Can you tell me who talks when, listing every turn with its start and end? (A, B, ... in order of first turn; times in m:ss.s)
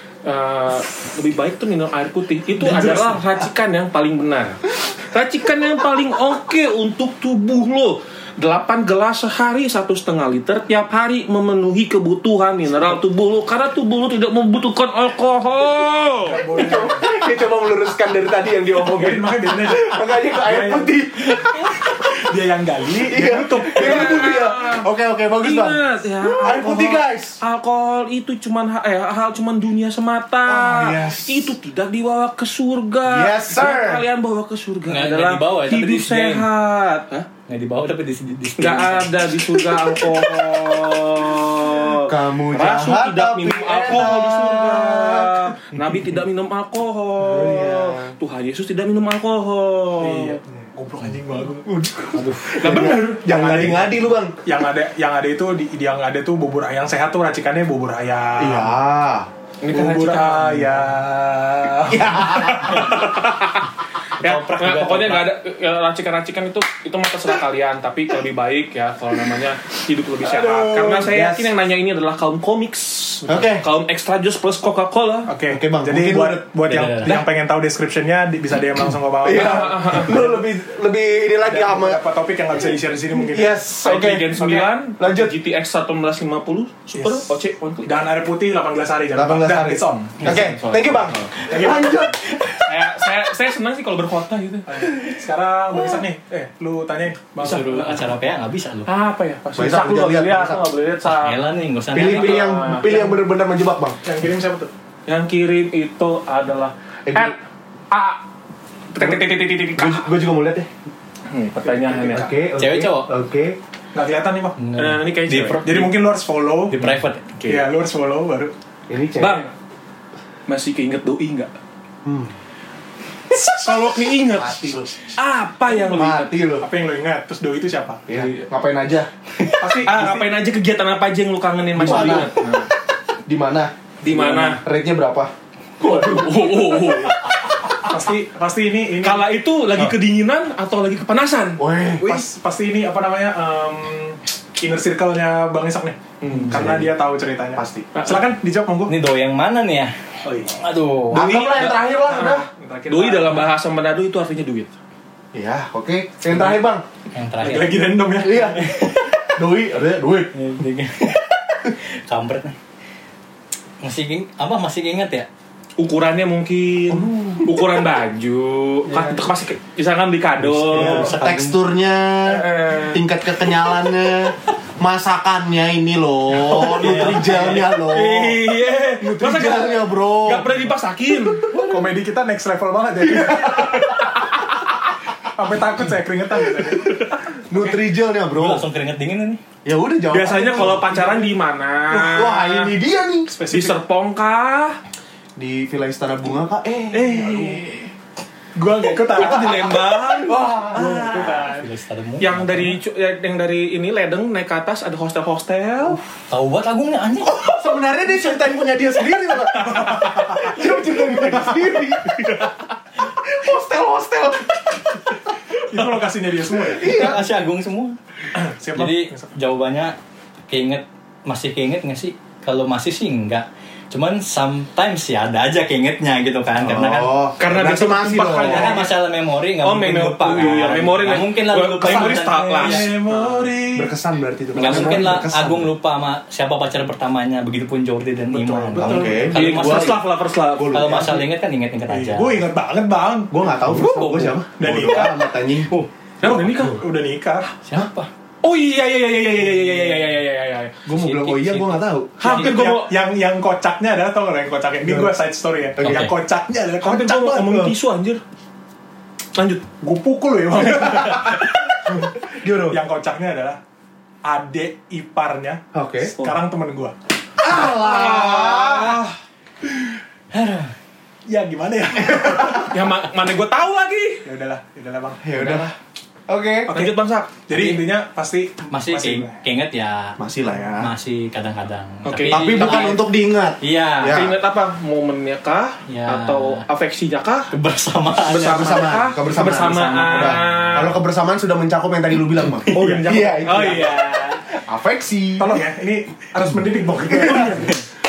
0:00.2-0:16.4 A
0:02.6-0:03.2 B
0:16.2-0:17.0 B
0:16.5-0:22.0 C
0:18.8-0:20.9 B
0:22.1-0:24.3 B
0:23.1-0:27.4 C
0:23.6-0:24.9 A
0:25.4-0:37.3 A
0:30.5-0:31.6 C
0:33.0-0:34.0 C
0:34.9-0:36.5 D
0:37.5-0:39.2 D
0:38.6-0:50.4 A
0:42.0-0:46.0 C
0:47.2-0:48.1 C
0:50.0-0:51.6 B
0:51.6-0:54.3 C
0:52.1-0:52.5 D
0:52.6-0:53.2 A
0:52.6-0:58.7 B
0:58.4-0:59.3 C
0:59.6-1:00.8 A
0:59.7-1:03.2 B
1:01.9-1:03.0 C
1:02.8-1:03.6 A
1:04.2-1:05.3 D
1:04.2-1:15.3 A
1:10.2-1:11.4 C
1:10.8-1:11.3 B
1:13.2-1:13.5 B
1:13.3-1:13.6 C
1:15.3-1:20.4 B
1:15.5-1:16.5 C
1:16.6-1:17.2 D
1:19.2-1:22.0 C
1:19.2-1:20.2 A
1:21.4-1:23.6 B
1:23.1-1:24.4 C
1:23.8-1:28.0 A
1:24.2-1:24.7 B
1:25.0-1:25.3 C
1:27.0-1:27.3 C
1:27.8-1:30.4 B
1:29.1-1:32.6 C
1:30.2-1:31.3 A
1:31.4-1:32.2 B
1:32.6-1:34.9 A
1:34.7-1:38.0 B
1:37.4-1:37.9 A
1:37.4-1:38.9 D
1:38.8-1:41.4 A
1:39.6-1:40.6 C
1:41.1-1:42.5 D
1:41.9-1:44.0 C
1:41.9-1:42.9 A
1:44.0-1:44.7 B
1:45.1-1:47.4 A
1:47.0-1:47.4 C
1:47.9-1:48.2 A
1:48.9-1:50.1 A
1:49.7-1:50.7 C
1:51.3-1:52.3 A
1:51.6-1:52.4 B
1:52.1-1:53.6 C
1:52.6-1:53.1 D
1:53.9-1:54.6 B
1:54.6-1:55.9 D
1:54.8-1:55.9 A
1:55.6-1:56.9 B
1:56.7-1:57.3 D
1:57.4-1:57.6 A
1:57.4-1:58.5 B
1:58.9-1:59.5 C
1:59.2-1:59.5 A
2:00.5-2:01.5 A
2:02.0-2:02.3 C
2:03.3-2:05.1 C
2:03.4-2:06.4 A
2:05.7-2:06.6 C
2:06.6-2:08.0 B
2:08.1-2:09.1 C
2:08.1-2:08.5 A
2:09.6-2:10.4 B
2:09.8-2:12.7 A
2:11.8-2:12.4 C
2:13.2-2:15.3 C
2:14.0-2:14.6 A
2:15.8-2:17.8 A
2:15.8-2:16.7 B
2:17.8-2:19.2 B
2:19.0-2:22.2 A
2:21.6-2:22.1 C
2:22.0-2:28.9 B
2:26.2-2:26.8 A
2:26.6-2:26.8 D
2:27.6-2:27.9 C
2:27.9-2:28.2 A
2:28.9-2:29.9 D
2:30.2-2:30.6 B
2:30.5-2:31.2 D
2:31.1-2:32.4 C
2:31.1-2:34.7 A
2:32.1-2:33.5 B
2:35.3-2:36.8 C
2:37.1-2:37.9 D
2:37.4-2:38.8 B
2:38.2-2:40.3 C
2:38.6-2:38.9 D
2:40.3-2:42.6 D
2:43.8-2:45.3 D
2:45.8-2:51.1 A
2:46.9-2:47.7 C
2:48.9-2:49.2 B
2:50.4-2:51.6 D
2:50.7-2:58.4 C
2:52.3-2:53.1 A
2:56.4-3:01.5 A
2:56.6-2:57.3 D
2:59.0-3:00.5 C
3:01.2-3:01.9 C
3:01.7-3:04.0 B
3:03.0-3:04.2 C
3:05.2-3:07.4 B
3:07.5-3:08.6 C
3:08.3-3:09.4 D
3:09.6-3:11.2 C
3:10.1-3:12.8 A
3:10.1-3:11.3 B
3:11.9-3:13.3 C
3:13.3-3:13.8 B
3:13.5-3:14.8 A
3:15.4-3:17.3 C
3:16.9-3:17.9 A
3:17.2-3:17.6 B
3:18.5-3:21.7 B
3:19.1-3:20.6 A
3:20.2-3:21.5 C
3:21.4-3:22.8 D
3:22.2-3:26.0 A
3:26.3-3:27.4 D
3:27.2-3:32.5 C
3:29.6-3:32.3 B
3:33.1-3:35.6 C
3:35.7-3:37.0 B
3:36.6-3:37.2 C
3:36.8-3:38.0 D
3:38.3-3:39.4 B
3:38.7-3:40.0 D
3:40.5-3:47.1 D
3:46.6-3:48.8 C
3:47.4-3:48.9 A
3:48.4-3:52.9 D
3:49.6-3:53.5 A
3:50.3-3:50.9 B
3:51.8-3:53.9 B
3:53.7-3:55.7 C
3:54.5-4:00.0 D
3:54.6-3:55.1 B
3:58.3-3:59.5 B
3:58.8-4:01.2 C
3:59.3-4:01.0 A
4:00.6-4:02.4 D
4:01.9-4:03.3 B
4:03.3-4:05.7 C
4:03.7-4:04.4 A
4:04.6-4:05.3 B
4:06.2-4:06.8 A
4:06.2-4:07.5 B
4:07.6-4:08.1 D
4:08.4-4:12.9 A
4:10.8-4:12.5 C
4:12.2-4:17.7 B
4:14.8-4:15.2 C
4:15.8-4:16.1 D
4:16.8-4:18.2 A
4:19.4-4:19.7 A
4:19.8-4:23.6 B
4:20.7-4:22.8 C
4:24.2-4:26.9 B
4:25.7-4:26.1 C
4:27.4-4:29.0 C
4:27.5-4:29.1 A
4:28.6-4:29.0 B
4:30.3-4:30.7 D
4:31.3-4:32.8 B
4:32.7-4:34.2 A
4:34.2-4:35.5 B
4:35.2-4:35.7 C
4:35.4-4:35.7 D
4:36.3-4:36.7 C
4:36.7-4:37.8 A
4:36.7-4:39.4 B
4:38.7-4:40.2 D
4:40.2-4:40.9 C
4:40.8-4:43.0 D
4:42.0-4:43.0 A
4:42.3-4:44.4 C
4:43.6-4:44.2 D
4:44.1-4:47.5 A
4:45.9-4:46.6 D
4:47.5-4:49.0 D
4:48.2-4:51.0 A
4:48.3-4:54.0 C
4:52.7-4:54.4 B
4:52.7-4:54.1 A
4:54.5-4:55.6 C
4:55.4-4:57.8 B
4:57.1-4:57.6 C